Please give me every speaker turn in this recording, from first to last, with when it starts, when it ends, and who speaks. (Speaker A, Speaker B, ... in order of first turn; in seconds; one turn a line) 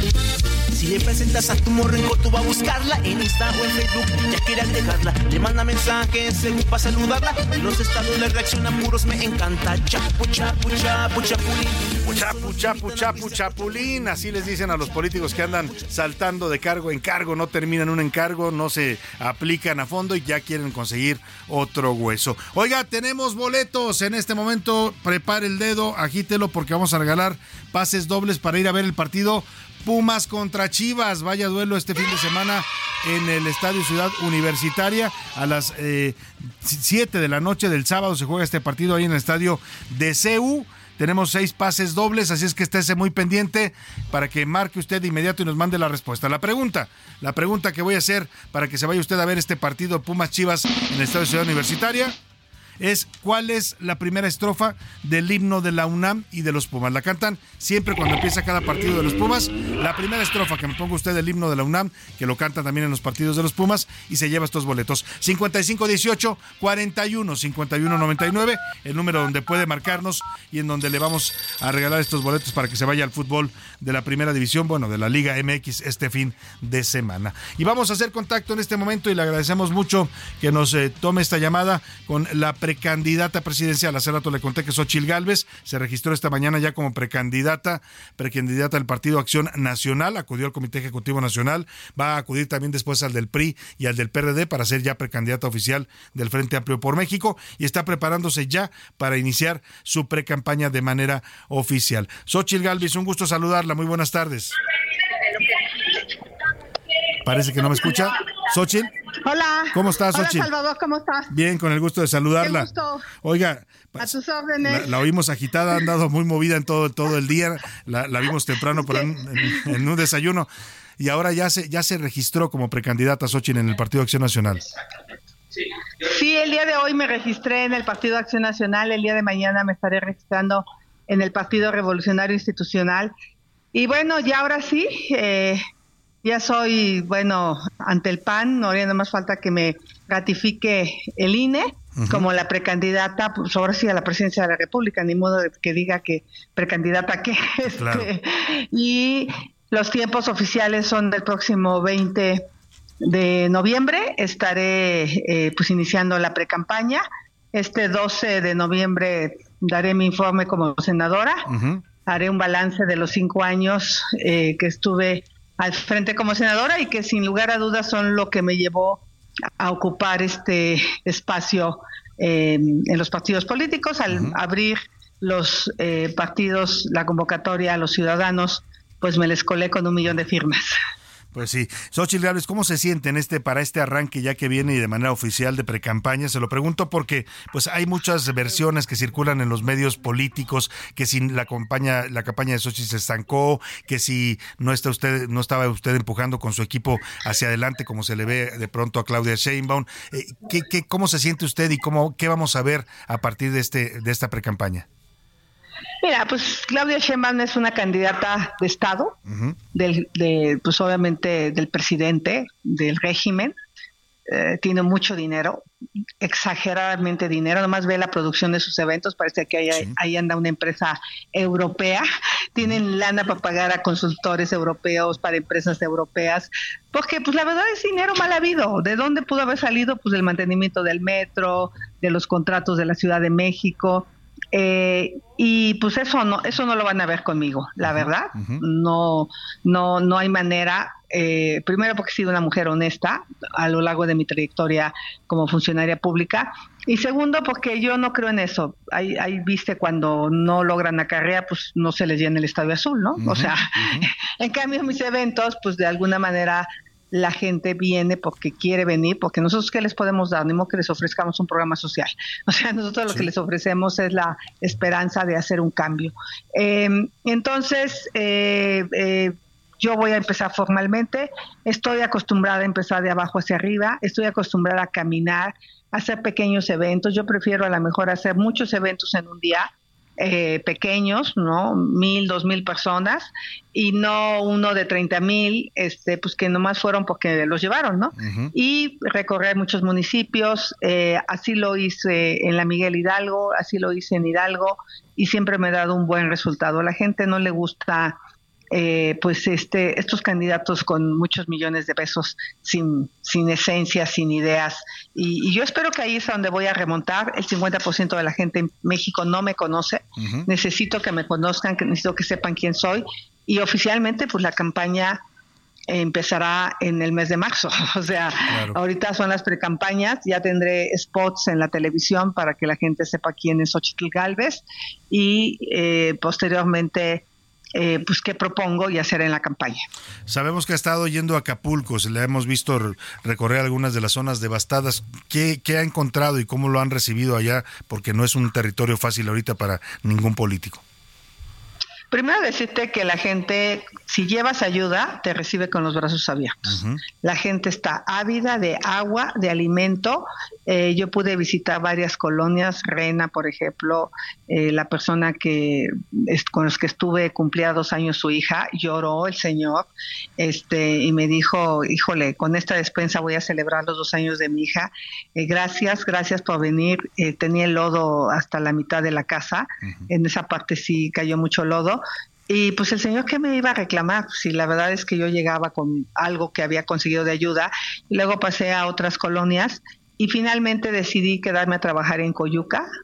Speaker A: 0.7-15.9
Speaker B: 12.1-52.1
Speaker B: 52.8-104.5
Speaker B: 107.2-108.9
Speaker C: 109.3-111.2
Speaker B: 109.7-110.5
Speaker B: 111.3-112.7
Speaker C: 112.5-112.8
Speaker B: 113.2-120.5
Speaker C: 114.0-114.8
Speaker B: 121.0-124.6
Speaker C: 126.0-133.1
Speaker C: 133.7-135.6
Speaker C: 136.2-152.4
Speaker B: 142.0-142.2
Speaker B: 147.7-148.1
Speaker C: 153.0-157.0
Speaker C: 157.5-161.5
Speaker B: 161.5-161.8
Speaker C: 162.1-169.0
Speaker C: 169.6-180.7
Speaker B: 174.1-174.4
Speaker B: 181.3-204.8
Speaker C: 206.0-209.1
Speaker B: 209.3-209.6
Speaker C: 209.7-213.5
Speaker C: 214.3-215.6
Speaker C: 216.2-298.2
Speaker B: 253.2-254.1
Speaker B: 288.2-288.5
Speaker C: 298.7-315.2
Speaker B: 310.2-310.4
Speaker C: 315.9-327.2
Speaker B: 318.5-318.8
Speaker C: 327.7-329.8
Speaker B: 330.3-340.8
Speaker C: 342.1-382.9
Speaker B: 346.6-347.0